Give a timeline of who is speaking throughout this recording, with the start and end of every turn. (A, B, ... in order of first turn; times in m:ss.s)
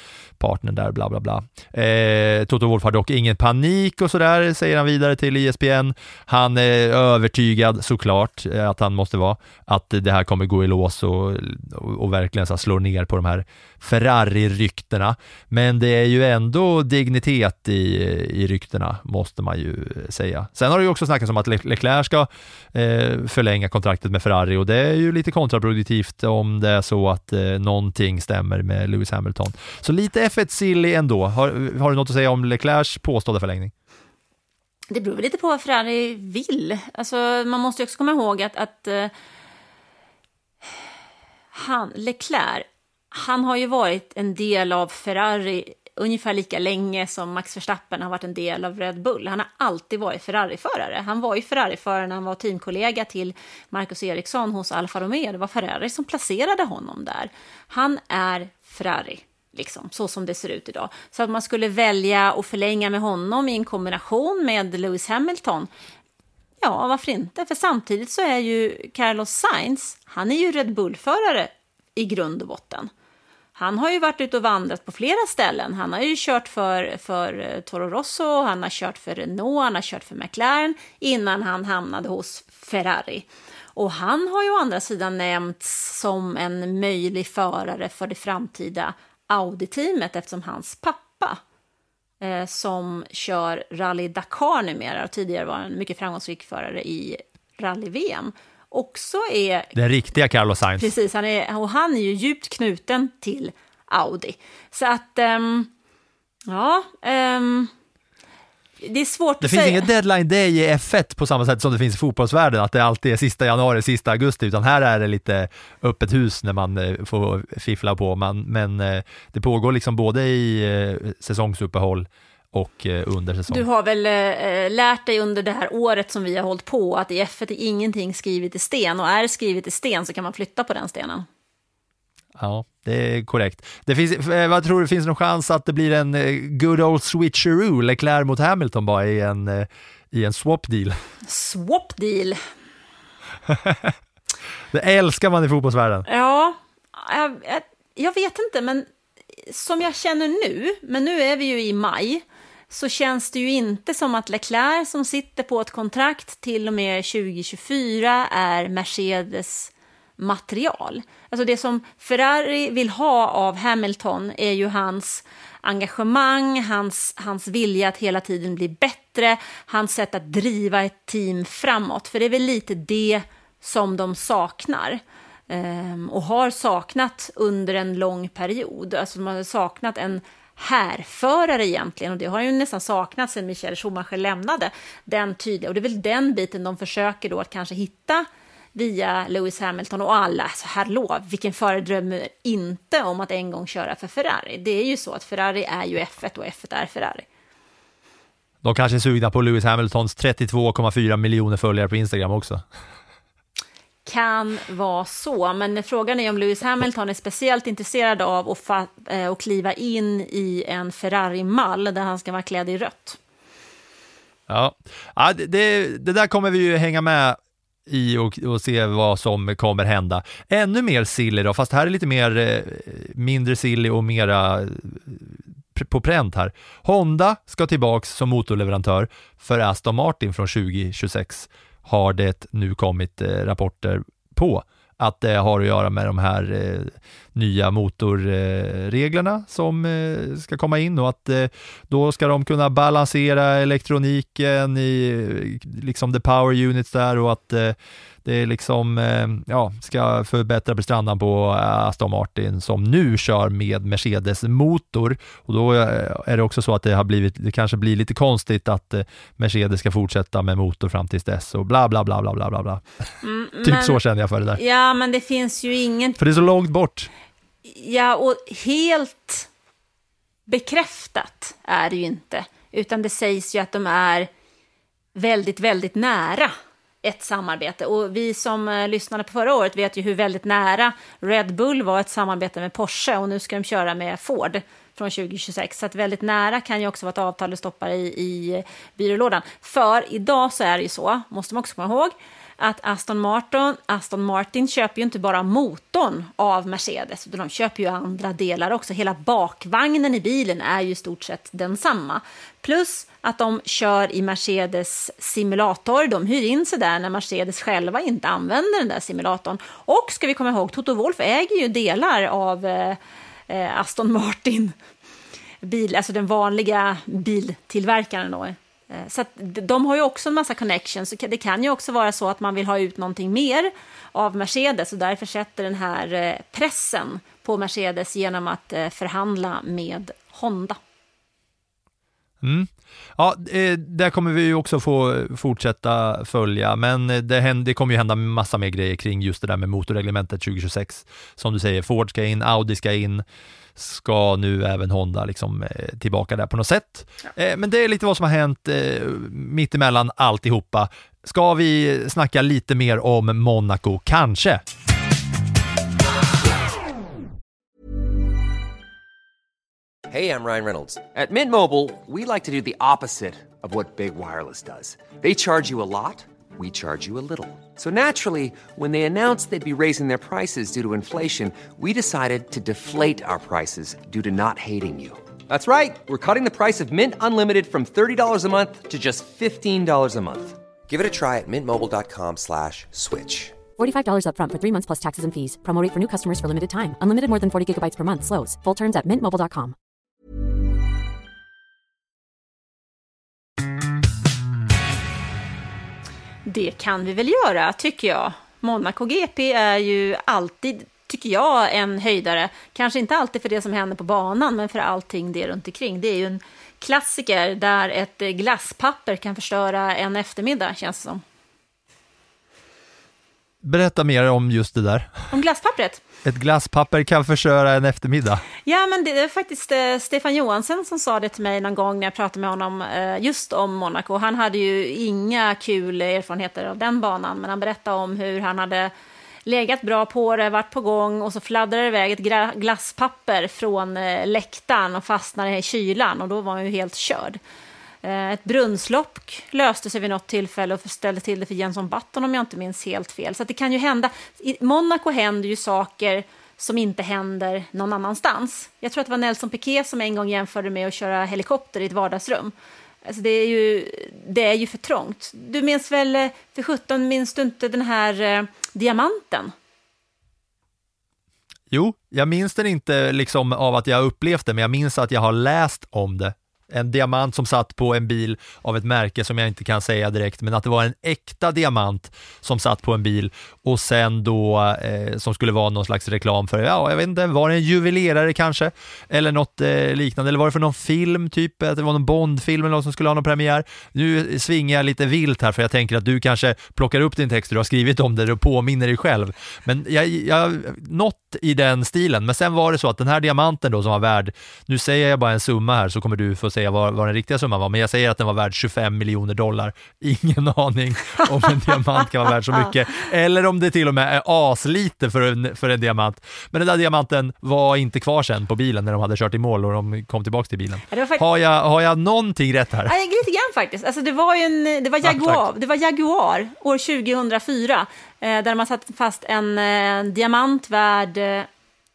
0:00.4-0:33.7 A
0:34.9-0:39.1 B
0:41.5-1:05.7 B
1:06.6-1:12.9 B
1:13.6-1:31.4 B
1:32.2-1:39.7 B
1:39.7-1:40.9 A
1:40.8-1:45.7 B
1:46.5-1:47.7 B
1:48.8-1:49.9 B
1:49.4-2:03.6 A
2:03.5-2:11.3 B
2:12.4-2:21.0 A
2:21.2-2:22.4 B
2:23.5-2:24.0 A
2:24.7-2:26.0 A
2:26.1-2:28.9 B
2:29.5-3:17.2 B
3:18.6-3:22.6 A
3:24.0-3:33.2 B
3:34.5-4:22.8 A
4:23.2-4:24.0 B
4:23.6-4:24.6 A
4:24.5-4:26.2 B
4:26.2-4:27.1 A
4:27.6-4:29.5 B
4:30.5-4:34.3 B
4:35.1-5:14.8 B
5:15.6-5:30.8 B
5:32.4-5:43.2 A
5:43.8-5:54.6 A
6:00.1-6:23.6 C
6:23.8-6:29.7 D
6:36.5-6:51.2 B
6:53.6-6:55.2 A
6:55.3-6:56.0 B
6:56.2-6:58.4 A
6:58.6-7:08.9 B
7:09.4-7:17.4 B
7:18.0-7:32.5 B
7:33.0-7:39.5 B
7:41.7-8:32.9 A
8:30.9-8:31.2 B
8:32.8-8:41.5 B
8:35.0-8:35.4 A